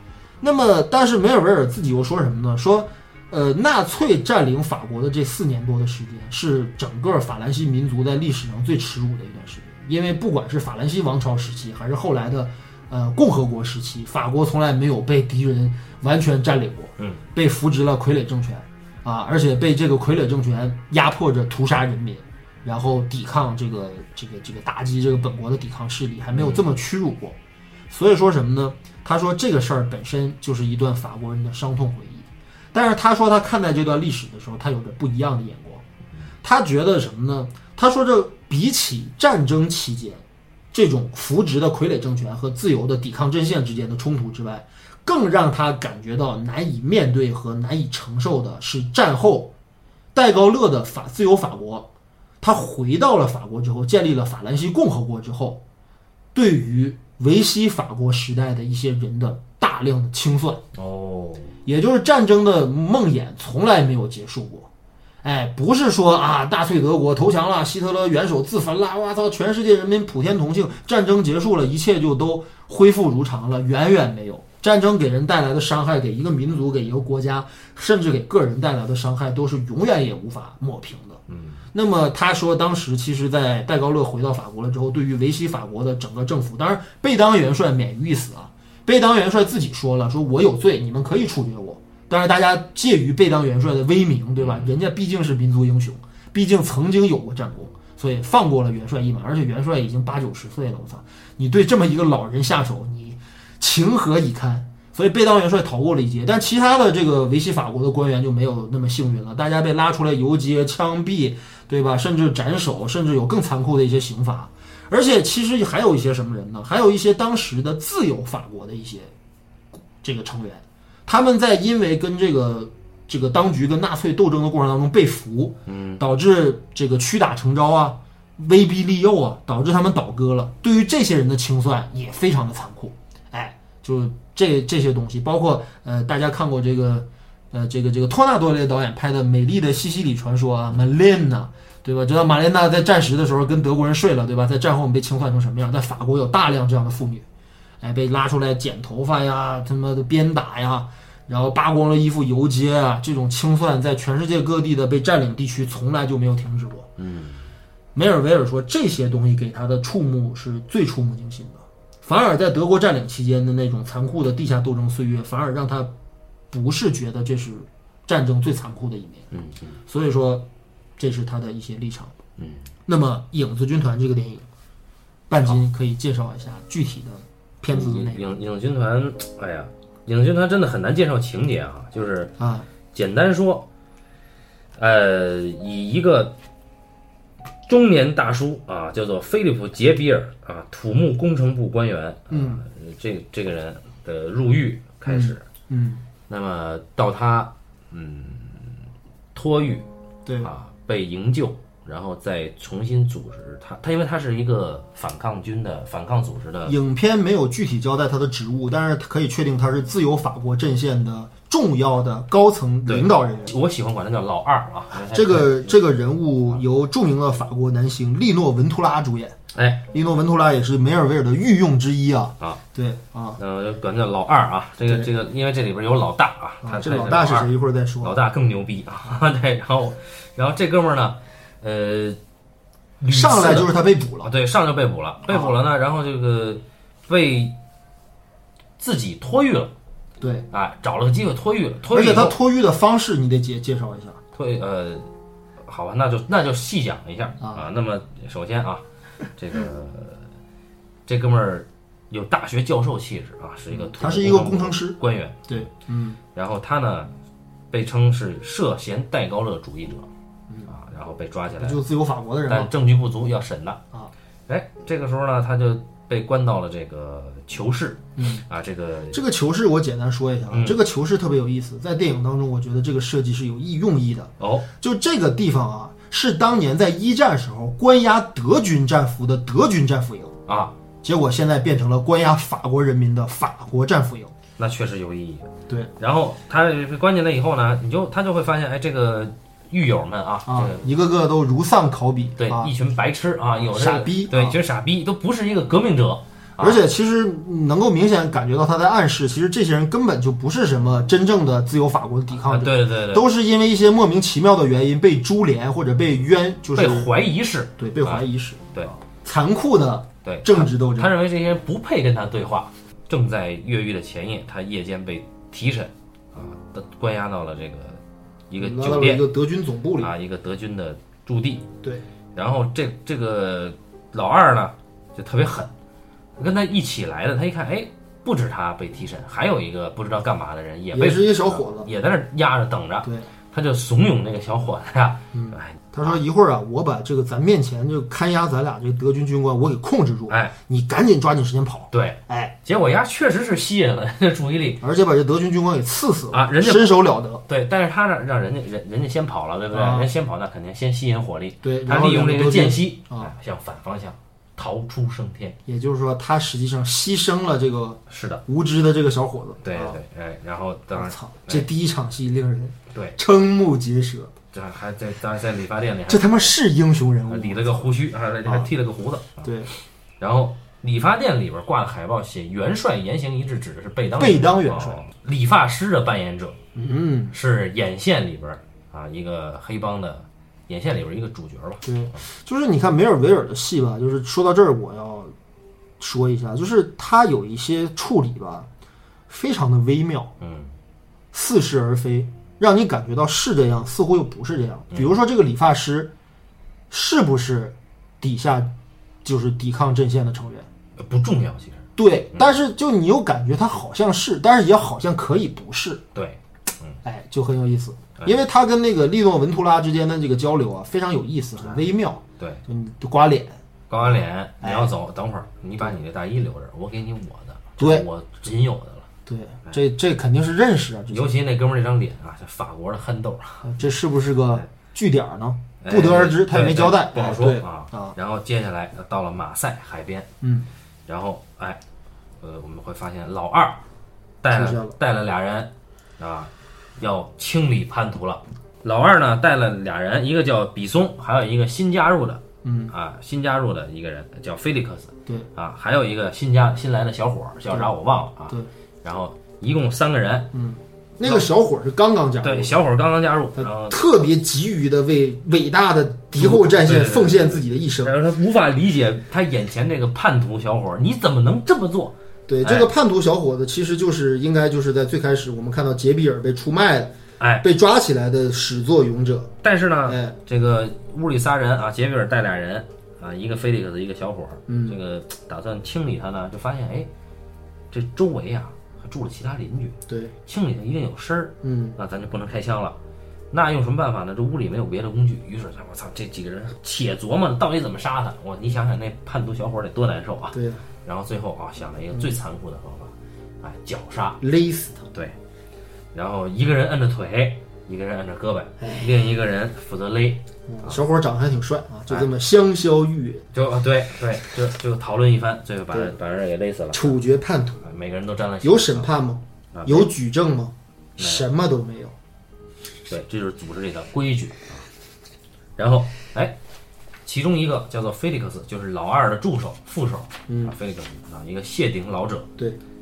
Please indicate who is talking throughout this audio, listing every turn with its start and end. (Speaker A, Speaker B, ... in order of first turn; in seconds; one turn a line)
Speaker A: 0.4-27.4
Speaker B: 26.3-26.6
Speaker A: 27.9-35.8
Speaker A: 36.4-49.5
Speaker A: 50.1-51.9
Speaker A: 52.4-55.6
Speaker A: 56.3-60.6
Speaker B: 60.7-61.5
Speaker A: 61.6-64.7
Speaker A: 65.2-81.2
Speaker B: 81.3-81.6
Speaker A: 81.7-119.1
Speaker B: 94.4-94.7
Speaker A: 120.0-147.2
Speaker B: 125.7-126.0
Speaker A: 147.8-156.9
Speaker B: 157.0-157.4
Speaker A: 157.9-165.9
Speaker A: 166.5-169.3
Speaker B: 169.3-169.8
Speaker A: 169.9-170.4
Speaker A: 171.0-172.1
Speaker B: 172.4-172.7
Speaker A: 172.8-174.5
Speaker A: 175.3-178.2
Speaker B: 177.7-182.3
Speaker A: 182.4-182.7
Speaker B: 182.9-183.7
Speaker B: 184.8-186.3
Speaker B: 187.7-195.4
Speaker A: 192.3-192.6
Speaker A: 195.1-196.0
Speaker B: 196.3-198.8
Speaker B: 199.3-199.8
Speaker A: 200.2-200.5
Speaker B: 200.4-206.8
Speaker A: 206.6-213.5
Speaker B: 212.8-215.8
Speaker A: 214.9-219.3
Speaker B: 219.5-219.8
Speaker A: 219.9-223.4
Speaker B: 223.4-232.2
Speaker A: 226.6-228.2
Speaker B: 233.0-237.5
Speaker A: 233.1-234.3
Speaker A: 235.3-235.6
Speaker B: 238.8-239.7
Speaker A: 240.2-240.4
Speaker B: 240.5-242.4
Speaker A: 241.9-244.2
Speaker B: 244.3-245.1
Speaker B: 245.6-250.3
Speaker A: 247.4-247.7
Speaker B: 251.1-255.6
Speaker A: 253.7-255.0
Speaker A: 255.5-256.2
Speaker B: 256.3-257.1
Speaker B: 257.7-260.1
Speaker B: 260.7-261.8
Speaker A: 261.5-262.7
Speaker B: 262.5-263.8
Speaker B: 264.5-269.2
Speaker A: 268.2-268.4
Speaker A: 269.1-280.3
Speaker B: 270.5-270.8
Speaker B: 274.4-274.7
Speaker B: 280.5-280.7
Speaker A: 281.0-284.3
Speaker B: 284.6-290.8
Speaker A: 290.5-292.7
Speaker B: 292.4-296.8
Speaker A: 293.6-294.6
Speaker A: 296.6-307.1
Speaker B: 302.4-303.2
Speaker B: 306.7-308.9
Speaker A: 307.8-311.1
Speaker B: 310.2-319.2
Speaker A: 318.6-320.1
Speaker B: 320.0-321.7
Speaker B: 322.3-325.7
Speaker B: 326.4-336.2
Speaker A: 330.9-331.9
Speaker A: 333.0-333.3
Speaker A: 335.3-342.5
Speaker B: 340.3-340.5
Speaker B: 341.9-344.8
Speaker A: 344.8-347.4
Speaker B: 346.3-355.6
Speaker A: 349.7-350.1
Speaker A: 351.6-353.3
Speaker A: 355.6-360.0
Speaker B: 358.1-358.4
Speaker B: 359.6-361.7
Speaker A: 360.9-364.3
Speaker B: 362.9-363.2
Speaker B: 364.5-366.5
Speaker A: 366.1-367.9
Speaker B: 367.3-369.5
Speaker A: 369.4-369.7
Speaker B: 370.2-376.6
Speaker A: 374.2-375.0
Speaker A: 376.7-377.3
Speaker B: 377.3-382.2
Speaker A: 381.8-385.3
Speaker A: 386.0-388.7
Speaker A: 389.3-390.3
Speaker B: 390.4-390.7
Speaker A: 391.3-396.1
Speaker A: 396.9-398.7
Speaker A: 399.2-400.7
Speaker B: 401.0-402.6
Speaker A: 401.9-406.0
Speaker B: 406.1-407.0
Speaker A: 407.0-413.6
Speaker B: 413.9-419.1
Speaker A: 414.6-414.9
Speaker A: 417.8-418.0
Speaker A: 419.2-421.3
Speaker B: 421.1-423.7
Speaker A: 423.6-428.1
Speaker B: 425.8-430.3
Speaker A: 430.4-430.7
Speaker B: 431.1-431.8
Speaker B: 432.4-433.8
Speaker B: 434.4-450.5
Speaker A: 434.5-434.9
Speaker A: 442.6-442.9
Speaker A: 450.5-452.7
Speaker B: 452.4-454.0
Speaker A: 453.6-458.1
Speaker B: 456.4-462.9
Speaker A: 462.5-469.5
Speaker B: 467.4-467.6
Speaker B: 469.6-477.1
Speaker A: 470.1-470.3
Speaker A: 474.7-475.0
Speaker B: 477.9-483.0
Speaker A: 480.1-480.3
Speaker A: 481.6-482.0
Speaker B: 483.5-494.4
Speaker A: 490.5-490.8
Speaker A: 494.4-495.0
Speaker B: 496.1-501.0
Speaker A: 498.8-499.1
Speaker A: 500.7-503.4
Speaker B: 503.5-507.2
Speaker A: 506.9-507.8
Speaker B: 507.8-509.1
Speaker A: 508.6-512.1
Speaker B: 509.7-510.1
Speaker B: 511.2-511.4
Speaker B: 513.1-514.9
Speaker B: 515.8-516.5
Speaker B: 517.2-522.5
Speaker A: 520.5-520.7